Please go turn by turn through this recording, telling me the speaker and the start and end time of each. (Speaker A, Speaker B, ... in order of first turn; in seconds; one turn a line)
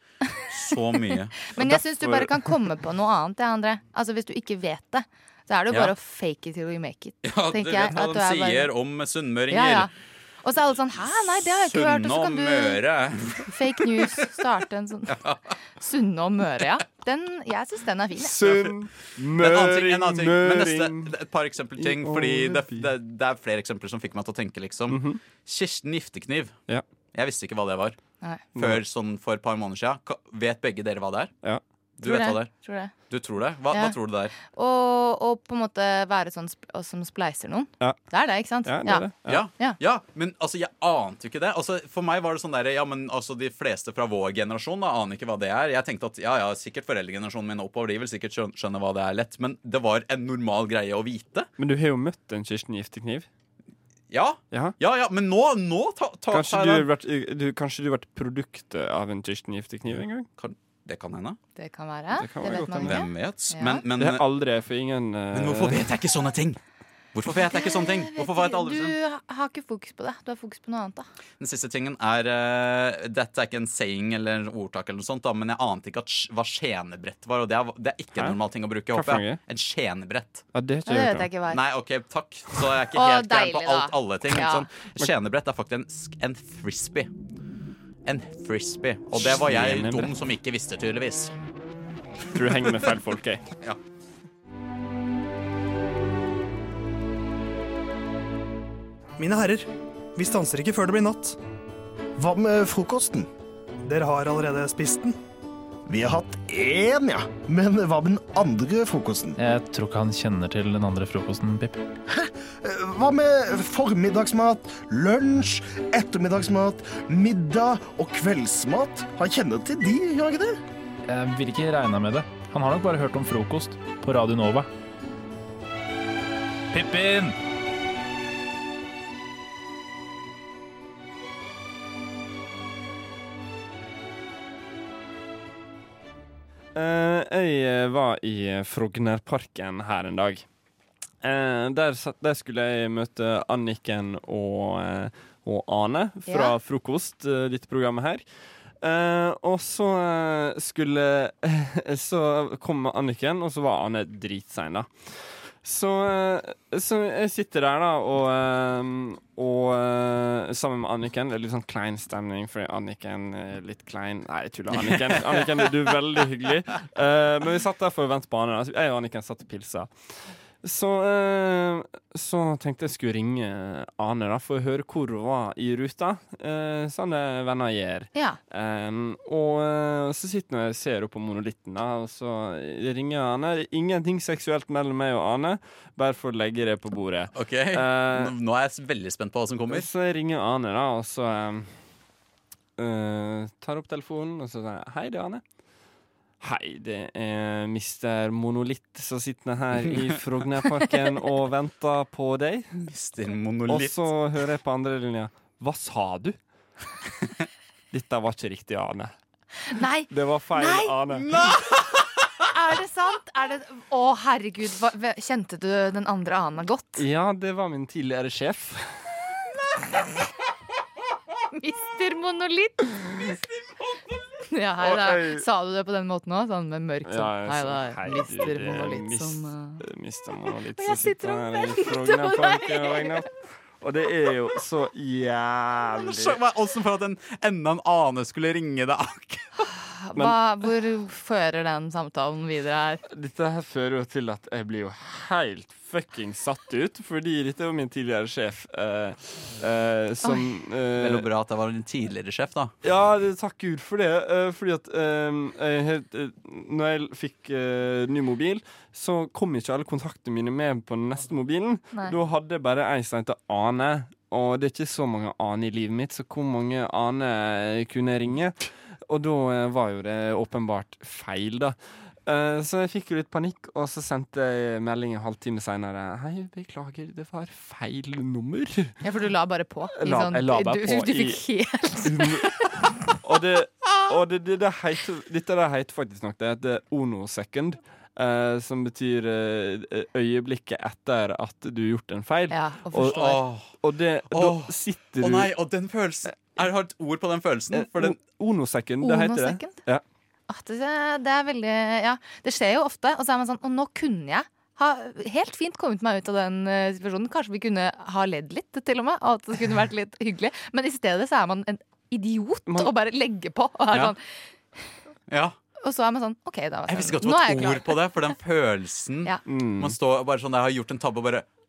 Speaker A: 0.5-2.3
Speaker B: 1.1-8.7
Speaker A: 7.2-9.9
Speaker B: 9.5-9.9
Speaker B: 10.4-12.8
Speaker A: 11.4-14.3
Speaker B: 13.5-15.2
Speaker B: 15.8-18.5
Speaker C: 18.2-21.1
Speaker A: 19.4-26.5
Speaker C: 21.8-22.9
Speaker C: 24.9-25.2
Speaker A: 27.1-28.0
Speaker B: 28.2-28.5
Speaker C: 28.6-28.8
Speaker A: 28.6-31.3
Speaker A: 32.0-32.5
Speaker B: 32.0-33.0
Speaker A: 33.1-34.4
Speaker B: 33.7-39.8
Speaker C: 38.6-39.4
Speaker A: 39.3-51.5
Speaker C: 51.6-53.3
Speaker A: 54.1-56.9
Speaker C: 56.3-60.3
Speaker A: 59.9-61.4
Speaker B: 61.6-63.8
Speaker C: 62.2-63.0
Speaker A: 62.5-64.2
Speaker C: 64.0-65.9
Speaker A: 65.3-66.6
Speaker A: 67.1-69.0
Speaker B: 67.4-71.1
Speaker A: 71.4-80.4
Speaker C: 78.9-79.4
Speaker C: 80.5-81.3
Speaker B: 80.9-81.6
Speaker A: 81.5-87.1
Speaker B: 82.9-84.7
Speaker A: 88.1-91.3
Speaker C: 89.1-90.1
Speaker C: 92.3-93.5
Speaker D: 99.2-101.4
Speaker E: 102.2-103.3
Speaker D: 103.8-105.2
Speaker E: 105.9-109.4
Speaker F: 109.4-111.8
Speaker E: 112.1-120.6
Speaker F: 121.0-124.7
Speaker F: 126.7-127.4
Speaker C: 136.8-140.4
Speaker C: 141.2-148.2
Speaker B: 146.3-146.6
Speaker C: 148.8-188.3
Speaker A: 164.7-165.4
Speaker A: 187.3-189.9
Speaker C: 189.7-191.8
Speaker C: 192.8-195.4
Speaker C: 196.4-202.7
Speaker A: 202.8-204.0
Speaker C: 203.7-206.4
Speaker C: 207.9-209.1
Speaker B: 209.7-211.0
Speaker C: 210.1-211.3
Speaker A: 211.2-212.0
Speaker B: 212.4-217.0
Speaker C: 217.0-219.1
Speaker B: 221.5-223.0
Speaker B: 224.5-229.8
Speaker C: 224.8-225.5
Speaker C: 227.1-236.4
Speaker B: 230.8-233.2
Speaker A: 236.0-239.5
Speaker B: 239.7-243.0
Speaker C: 243.1-251.3
Speaker B: 250.2-250.5
Speaker A: 251.0-252.7
Speaker C: 252.8-279.0
Speaker B: 279.0-282.7
Speaker C: 280.0-281.4
Speaker C: 282.0-282.7
Speaker C: 283.2-295.5
Speaker B: 292.5-293.4
Speaker A: 293.1-293.7
Speaker A: 294.3-298.2
Speaker C: 297.7-300.0
Speaker B: 299.0-299.8
Speaker B: 300.5-314.2
Speaker A: 315.3-315.6
Speaker B: 315.8-318.0
Speaker A: 316.9-321.4
Speaker C: 319.5-320.0